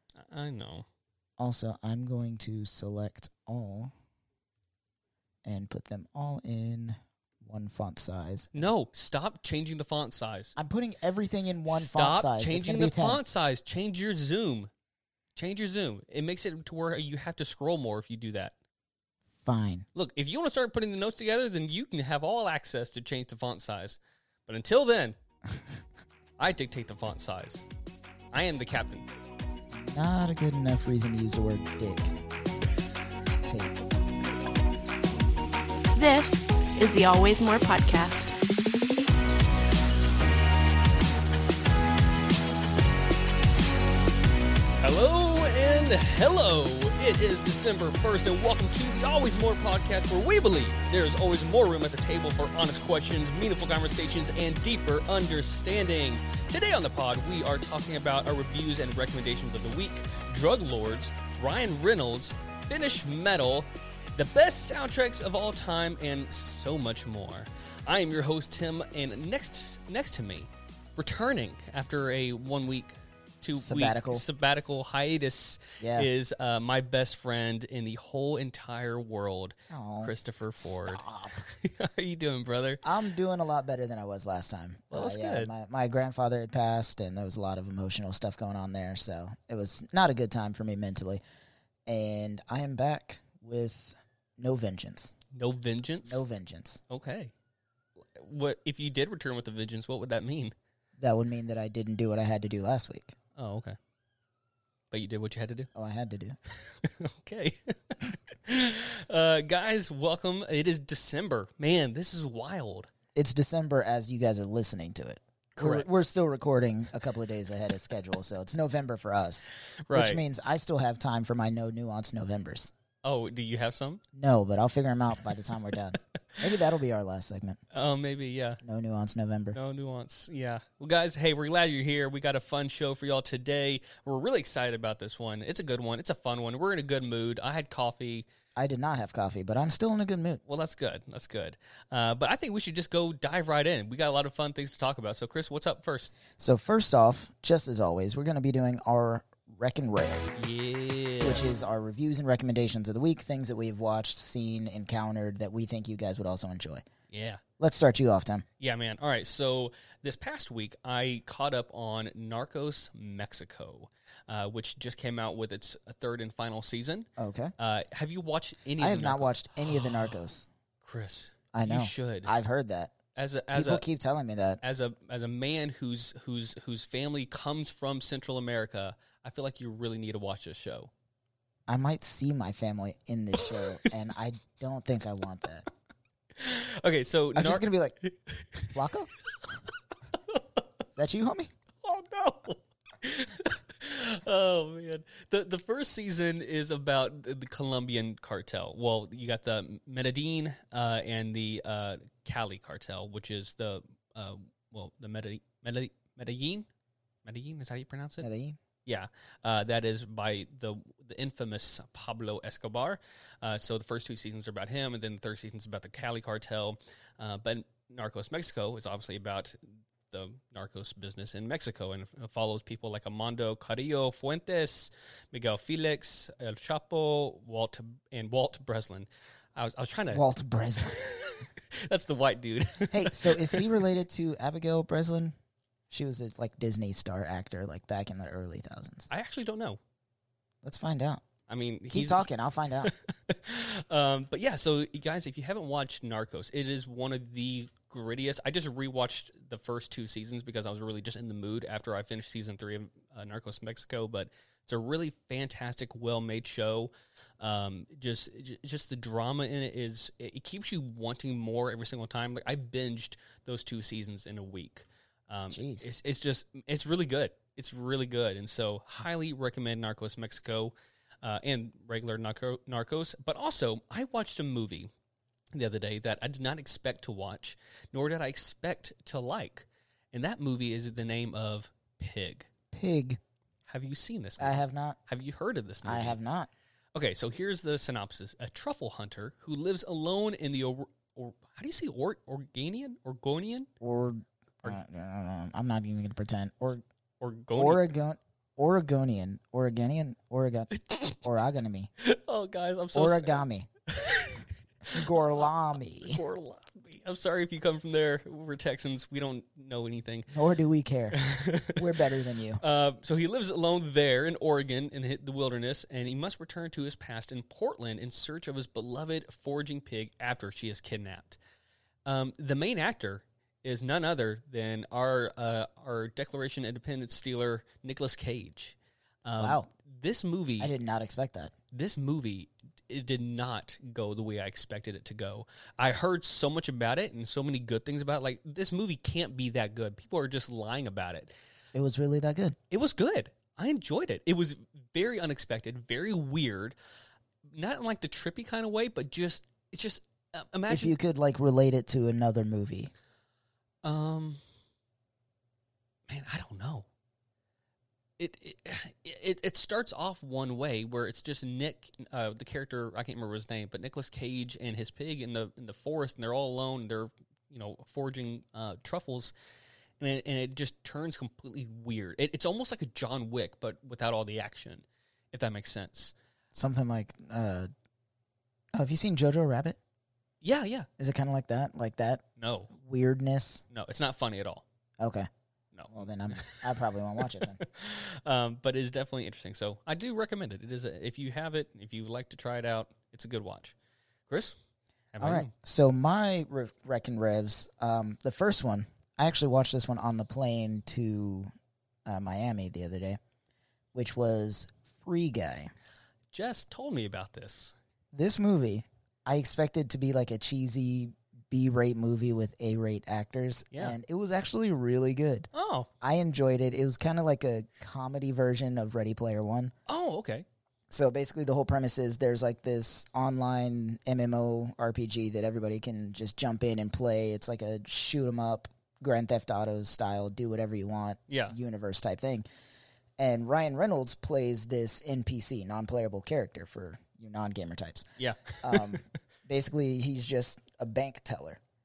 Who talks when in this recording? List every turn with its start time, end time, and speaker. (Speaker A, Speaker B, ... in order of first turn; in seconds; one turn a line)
Speaker A: 0.2-0.8
Speaker B: 1.4-3.9
Speaker B: 5.4-8.7
Speaker A: 8.5-10.5
Speaker B: 10.6-13.2
Speaker A: 11.7-14.7
Speaker A: 15.3-18.5
Speaker B: 19.4-19.9
Speaker A: 19.9-25.1
Speaker A: 26.4-27.6
Speaker A: 28.3-29.1
Speaker B: 29.7-32.1
Speaker B: 33.5-33.8
Speaker C: 35.9-38.3
Speaker A: 44.8-82.8
Speaker B: 73.5-74.2
Speaker B: 75.8-76.1
Speaker B: 79.7-81.5
Speaker B: 82.8-91.2
Speaker A: 84.9-85.5
Speaker B: 91.9-95.1
Speaker A: 95.3-96.2
Speaker B: 96.0-96.8
Speaker A: 96.9-97.3
Speaker A: 98.0-100.5
Speaker B: 101.0-103.2
Speaker A: 103.3-103.8
Speaker A: 104.9-105.7
Speaker B: 105.7-106.4
Speaker A: 106.5-112.9
Speaker B: 113.1-122.7
Speaker A: 115.6-115.9
Speaker A: 119.9-120.2
Speaker A: 123.0-124.0
Speaker B: 124.1-127.6
Speaker A: 127.7-128.6
Speaker B: 128.6-129.6
Speaker A: 129.5-138.3
Speaker B: 138.6-140.4
Speaker A: 140.4-146.1
Speaker B: 146.4-150.3
Speaker A: 150.3-151.6
Speaker B: 151.2-156.8
Speaker A: 157.1-157.4
Speaker B: 157.6-158.4
Speaker A: 158.6-170.2
Speaker B: 167.2-167.5
Speaker B: 168.8-170.5
Speaker A: 170.8-172.3
Speaker B: 171.5-172.9
Speaker A: 173.1-173.8
Speaker B: 173.5-174.6
Speaker A: 174.6-180.9
Speaker B: 181.7-185.7
Speaker A: 186.3-188.8
Speaker B: 187.3-187.9
Speaker B: 188.7-189.1
Speaker A: 190.3-190.6
Speaker B: 190.9-191.5
Speaker A: 191.8-206.7
Speaker A: 207.2-208.2
Speaker B: 208.2-208.6
Speaker A: 208.8-230.2
Speaker B: 230.1-231.1
Speaker A: 230.9-233.7
Speaker B: 232.9-235.3
Speaker B: 235.9-239.1
Speaker A: 239.1-239.8
Speaker B: 240.6-241.2
Speaker A: 241.5-242.3
Speaker B: 241.9-242.9
Speaker A: 242.8-274.9
Speaker B: 265.5-265.9
Speaker A: 275.5-282.5
Speaker B: 282.7-283.2
Speaker A: 283.7-286.2
Speaker B: 284.4-285.0
Speaker B: 285.8-286.5
Speaker A: 286.9-293.7
Speaker B: 293.8-296.8
Speaker A: 297.2-297.9
Speaker B: 297.5-301.9
Speaker A: 300.9-301.1
Speaker A: 302.0-305.5
Speaker B: 302.9-303.7
Speaker B: 304.9-306.2
Speaker A: 306.0-310.3
Speaker B: 310.3-312.6
Speaker A: 311.1-312.0
Speaker A: 312.6-321.4
Speaker A: 322.0-330.7
Speaker B: 329.4-329.7
Speaker B: 330.6-331.5
Speaker A: 331.7-341.3
Speaker B: 341.7-342.6
Speaker A: 342.7-346.8
Speaker A: 347.4-351.0
Speaker B: 350.7-352.9
Speaker A: 353.8-354.4
Speaker A: 356.1-356.9
Speaker A: 358.2-369.3
Speaker A: 370.0-376.1
Speaker B: 376.5-377.7
Speaker B: 378.7-379.8
Speaker A: 380.4-380.9
Speaker B: 381.0-383.6
Speaker A: 382.4-382.7
Speaker A: 383.7-384.6
Speaker B: 385.0-385.3
Speaker A: 385.7-386.6
Speaker B: 385.9-387.6
Speaker A: 387.2-393.7
Speaker A: 394.3-394.6
Speaker A: 395.1-395.5
Speaker B: 395.2-401.5
Speaker B: 402.1-403.2
Speaker B: 403.9-405.7
Speaker A: 406.3-407.7
Speaker B: 408.1-415.5
Speaker A: 413.7-414.0
Speaker A: 415.5-415.9
Speaker B: 416.0-419.7
Speaker A: 419.9-420.4
Speaker B: 420.9-432.4
Speaker A: 431.3-431.5
Speaker B: 433.2-441.6
Speaker A: 438.2-438.9